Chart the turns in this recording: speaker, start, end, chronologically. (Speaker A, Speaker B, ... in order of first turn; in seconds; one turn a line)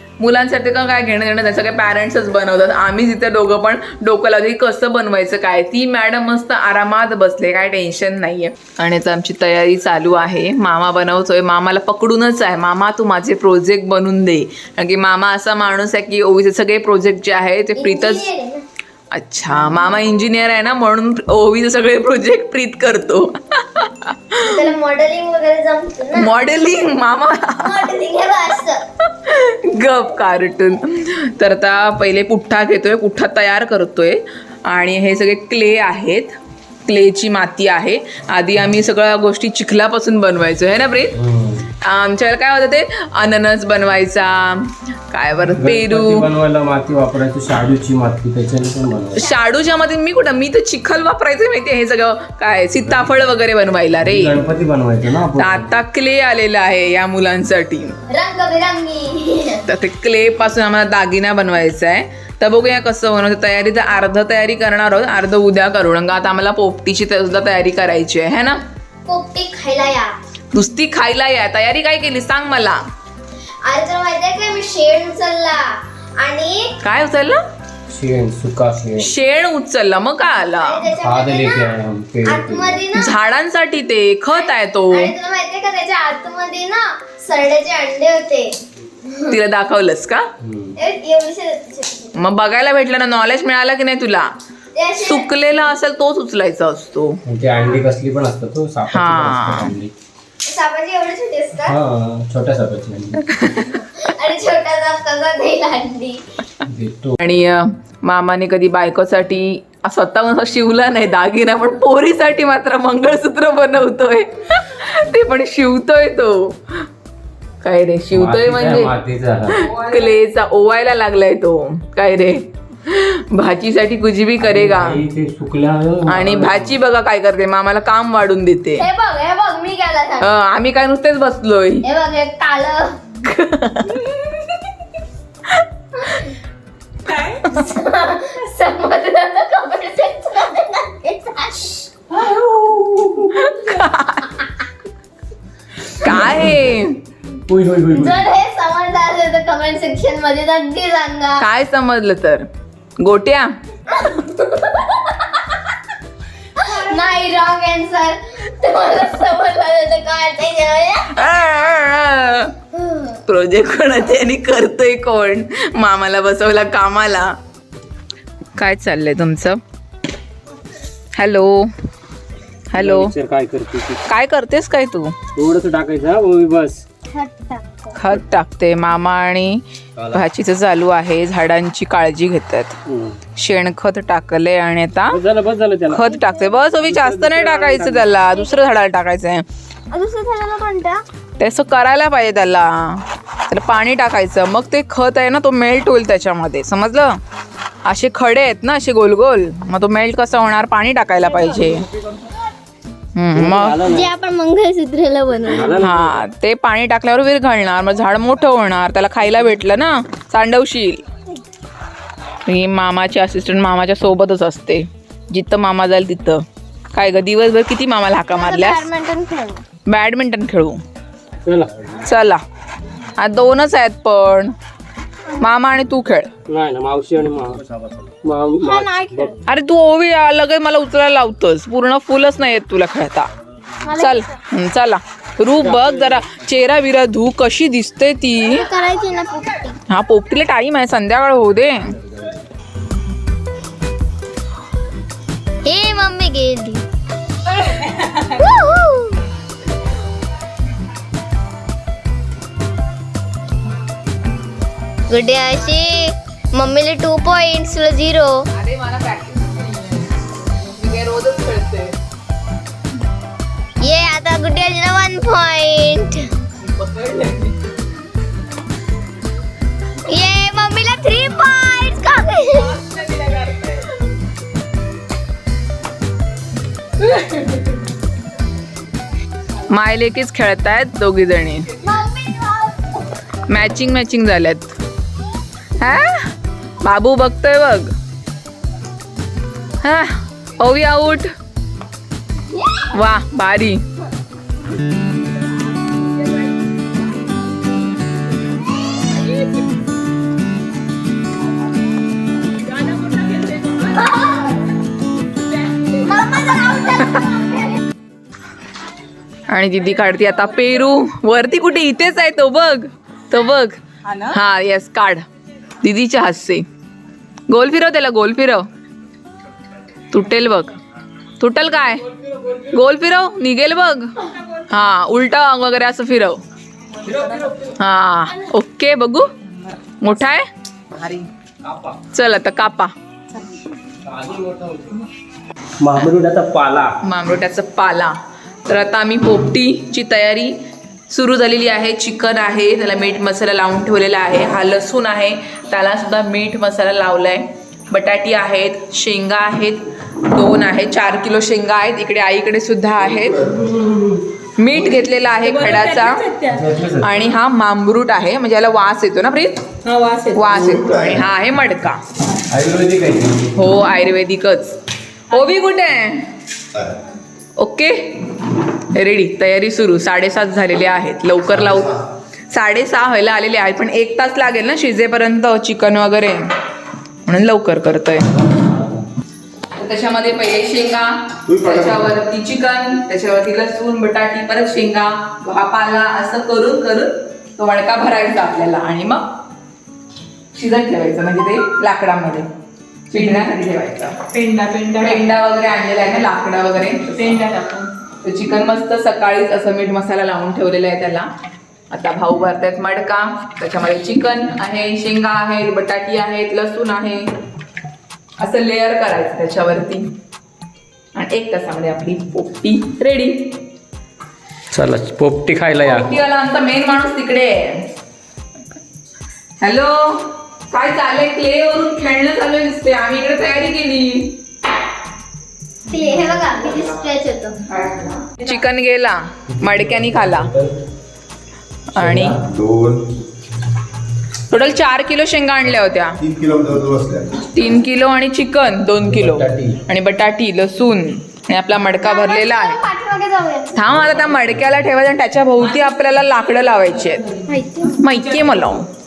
Speaker A: 0.2-18.3
Speaker B: 17.8-18.6
Speaker A: 19.1-24.7
Speaker B: 24.4-26.3
Speaker A: 26.1-27.9
Speaker B: 27.6-28.8
Speaker A: 29.1-36.4
Speaker A: 36.9-41.2
Speaker C: 41.2-41.7
Speaker A: 41.8-46.3
Speaker C: 45.6-49.2
Speaker A: 49.2-54.4
Speaker C: 54.0-55.7
Speaker A: 55.4-58.0
Speaker B: 58.1-59.6
Speaker A: 59.7-68.6
Speaker B: 69.0-70.2
Speaker A: 70.5-72.8
Speaker B: 73.6-76.7
Speaker A: 76.8-77.4
Speaker C: 77.9-79.1
Speaker A: 79.0-80.9
Speaker B: 80.6-81.7
Speaker C: 80.9-82.8
Speaker B: 82.2-83.2
Speaker A: 82.9-85.1
Speaker B: 84.3-89.4
Speaker A: 89.3-90.2
Speaker C: 90.4-90.8
Speaker B: 90.8-92.2
Speaker A: 92.2-94.3
Speaker B: 94.7-95.3
Speaker A: 95.0-97.2
Speaker C: 97.3-99.9
Speaker A: 98.9-99.8
Speaker B: 100.4-101.8
Speaker C: 101.6-103.6
Speaker A: 103.3-103.8
Speaker B: 103.8-106.2
Speaker C: 106.7-107.2
Speaker A: 107.2-116.9
Speaker A: 117.6-118.9
Speaker C: 118.1-119.7
Speaker A: 119.6-125.0
Speaker C: 124.4-126.8
Speaker A: 126.1-128.9
Speaker B: 128.8-130.3
Speaker A: 130.2-131.9
Speaker B: 131.8-133.0
Speaker A: 133.2-134.5
Speaker A: 135.6-136.3
Speaker B: 137.4-141.9
Speaker C: 142.2-143.3
Speaker A: 143.3-144.5
Speaker A: 145.8-147.0
Speaker C: 146.0-146.7
Speaker C: 147.5-148.3
Speaker B: 147.9-151.4
Speaker A: 151.4-152.5
Speaker A: 153.0-153.6
Speaker B: 154.0-155.4
Speaker B: 156.6-161.1
Speaker A: 161.1-162.6
Speaker B: 162.7-163.2
Speaker A: 163.3-167.4
Speaker A: 168.6-169.6
Speaker A: 171.2-171.7
Speaker A: 172.7-173.1
Speaker C: 172.8-174.0
Speaker A: 174.1-175.2
Speaker C: 175.3-176.8
Speaker B: 177.1-177.9
Speaker A: 177.9-182.8
Speaker C: 180.0-180.2
Speaker C: 182.9-183.2
Speaker A: 183.4-185.2
Speaker C: 185.1-186.1
Speaker A: 185.9-189.4
Speaker B: 186.1-186.6
Speaker C: 186.8-188.1
Speaker B: 188.2-188.7
Speaker B: 189.9-191.0
Speaker A: 191.4-197.2
Speaker A: 197.8-201.9
Speaker A: 203.2-203.8
Speaker C: 203.3-204.1
Speaker B: 203.8-205.8
Speaker C: 205.5-206.2
Speaker A: 205.7-211.0
Speaker A: 212.4-218.9
Speaker B: 218.3-219.7
Speaker A: 219.9-220.8
Speaker C: 221.4-221.7
Speaker A: 222.0-222.4
Speaker A: 223.2-224.5
Speaker A: 225.4-226.3
Speaker C: 226.5-229.4
Speaker B: 228.6-229.4
Speaker A: 229.5-233.3
Speaker B: 233.8-234.4
Speaker A: 234.0-238.7
Speaker C: 235.6-236.2
Speaker B: 238.4-239.8
Speaker A: 239.9-241.9
Speaker B: 245.7-246.8
Speaker B: 248.2-249.2
Speaker B: 255.1-258.4
Speaker A: 258.5-262.0
Speaker B: 263.8-266.3
Speaker A: 266.6-267.6
Speaker B: 270.1-272.9
Speaker A: 273.0-273.7
Speaker D: 273.2-273.5
Speaker A: 279.7-281.7
Speaker B: 281.8-282.9
Speaker A: 283.5-284.7
Speaker A: 285.8-286.3
Speaker A: 286.8-287.9
Speaker A: 289.8-291.3
Speaker A: 292.9-293.8
Speaker D: 295.7-296.5
Speaker D: 299.1-299.7
Speaker D: 302.6-304.5
Speaker D: 305.4-306.2
Speaker B: 306.0-307.7
Speaker A: 309.5-315.2
Speaker A: 315.8-316.6
Speaker A: 317.5-318.7
Speaker A: 320.1-320.7
Speaker A: 321.4-322.0
Speaker C: 322.3-322.6
Speaker A: 322.7-326.4
Speaker C: 327.1-327.7
Speaker A: 327.8-329.3
Speaker A: 330.0-330.5
Speaker D: 331.0-331.2
Speaker C: 331.6-332.0
Speaker A: 332.1-332.9
Speaker C: 334.0-335.1
Speaker C: 335.8-337.0
Speaker A: 337.0-338.1
Speaker A: 338.7-340.6
Speaker A: 341.1-353.5
Speaker E: 353.1-353.7
Speaker C: 353.7-354.2
Speaker A: 354.6-356.3
Speaker D: 355.4-356.6
Speaker C: 356.4-357.3
Speaker A: 357.0-359.7
Speaker D: 359.8-360.7
Speaker A: 360.3-362.0
Speaker E: 360.5-361.2
Speaker C: 362.5-363.6
Speaker A: 363.6-364.8
Speaker A: 365.3-366.3
Speaker A: 367.6-372.0
Speaker A: 372.5-376.5
Speaker A: 377.3-378.5
Speaker A: 379.8-389.3
Speaker E: 381.5-382.1
Speaker A: 390.6-392.5
Speaker A: 393.1-394.2
Speaker D: 394.3-395.2
Speaker A: 395.0-397.5
Speaker D: 397.2-397.9
Speaker A: 398.1-401.3
Speaker A: 401.9-407.3
Speaker A: 408.4-410.1
Speaker A: 411.1-413.6
Speaker C: 414.7-416.1
Speaker A: 415.8-417.9
Speaker A: 419.6-424.4
Speaker B: 425.9-427.6
Speaker A: 427.7-430.5
Speaker C: 429.6-430.7
Speaker A: 431.9-432.4
Speaker C: 432.0-432.4
Speaker E: 432.5-433.1
Speaker A: 434.5-436.2
Speaker E: 436.2-437.5
Speaker A: 437.5-442.8
Speaker C: 439.0-439.8
Speaker B: 442.0-443.8
Speaker A: 443.7-447.3
Speaker D: 445.6-448.8
Speaker B: 447.5-448.0
Speaker A: 448.0-448.9